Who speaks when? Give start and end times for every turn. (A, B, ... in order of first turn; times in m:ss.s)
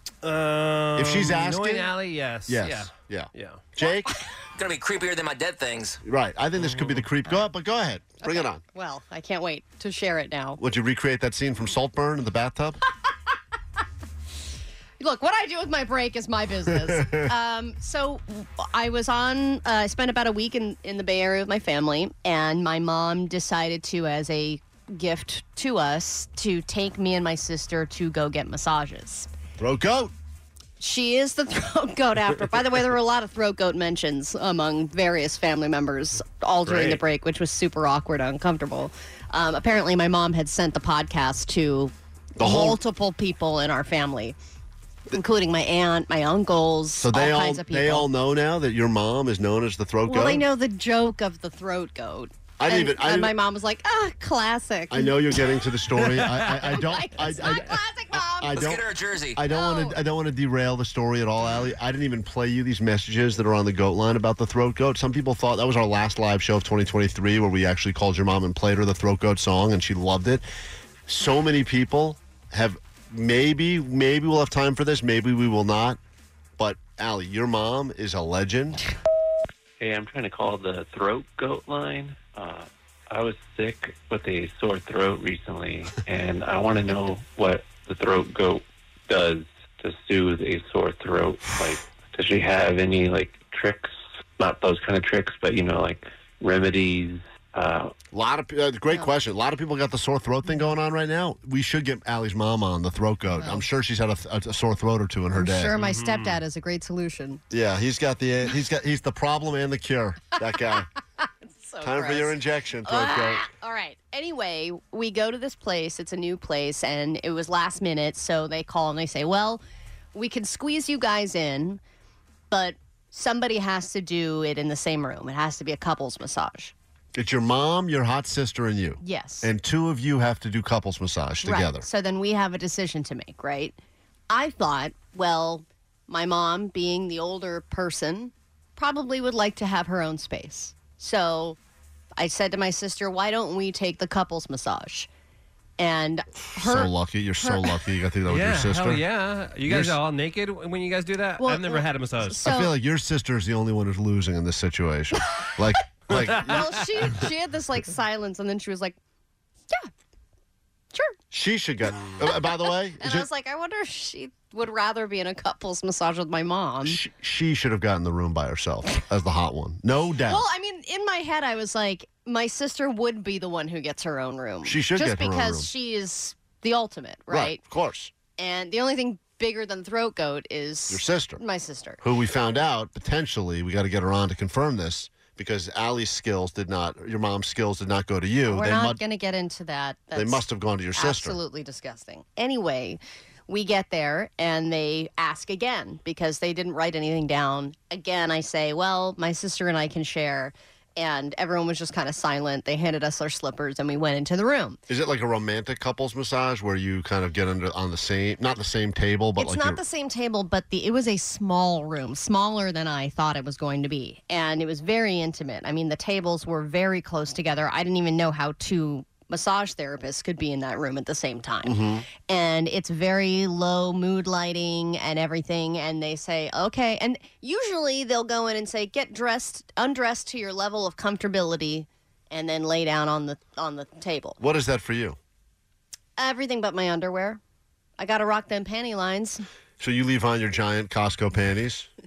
0:00.2-0:03.6 A
0:00.9-0:01.9 B
0:02.5-0:04.1 B
0:04.5-0:06.0 C
0:06.0-0:08.6 B
0:06.5-0:07.4 A
0:08.2-0:10.6 D
0:10.6-0:12.8 B
0:15.0-0:29.3 D
0:29.6-0:30.1 B
0:30.8-0:44.4 D
0:36.7-0:37.0 B
0:42.4-0:42.8 B
0:45.1-0:48.1 D
0:47.0-0:50.4 B
0:50.0-0:55.4 D
0:52.6-0:53.3 B
0:54.9-0:57.6 B
0:56.0-0:57.7 A
0:56.6-0:58.7 D
0:58.4-1:10.4 B
0:58.5-0:59.4 C
0:59.5-1:00.0 D
1:11.1-1:16.0 B
1:16.6-1:18.8 B
1:19.8-1:37.9 E
1:38.1-1:45.7 B
1:43.4-1:43.6 D
1:45.3-1:47.4 D
1:45.7-1:46.4 A
1:47.5-1:50.9 B
1:50.4-1:59.6 D
1:51.8-1:53.4 B
2:00.1-2:01.8 D
2:02.5-2:06.7 D
2:07.2-2:11.8 B
2:09.0-2:09.5 D
2:11.4-2:13.8 D
2:14.3-2:21.6 D
2:22.2-2:25.1 D
2:25.8-2:27.8 D
2:26.6-2:29.0 B
2:28.2-2:32.6 A
2:29.6-2:30.0 B
2:31.4-2:32.8 D
2:32.4-2:36.5 B
2:35.4-2:39.0 D
2:36.1-2:36.6 A
2:41.3-2:43.3 B
2:42.2-2:47.0 D
2:47.0-2:50.4 B
2:50.2-2:57.6 D
2:54.6-2:55.7 B
2:57.3-2:58.1 B
2:58.4-3:02.0 D
3:00.9-3:01.4 B
3:02.0-3:09.0 B
3:08.4-3:24.8 D
3:10.2-3:11.4 B
3:24.9-3:29.7 B
3:29.4-3:54.4 D
3:41.6-3:42.0 B
3:54.4-3:55.2 B
3:56.2-3:57.4 D
3:58.0-3:59.4 D
3:59.8-4:01.9 B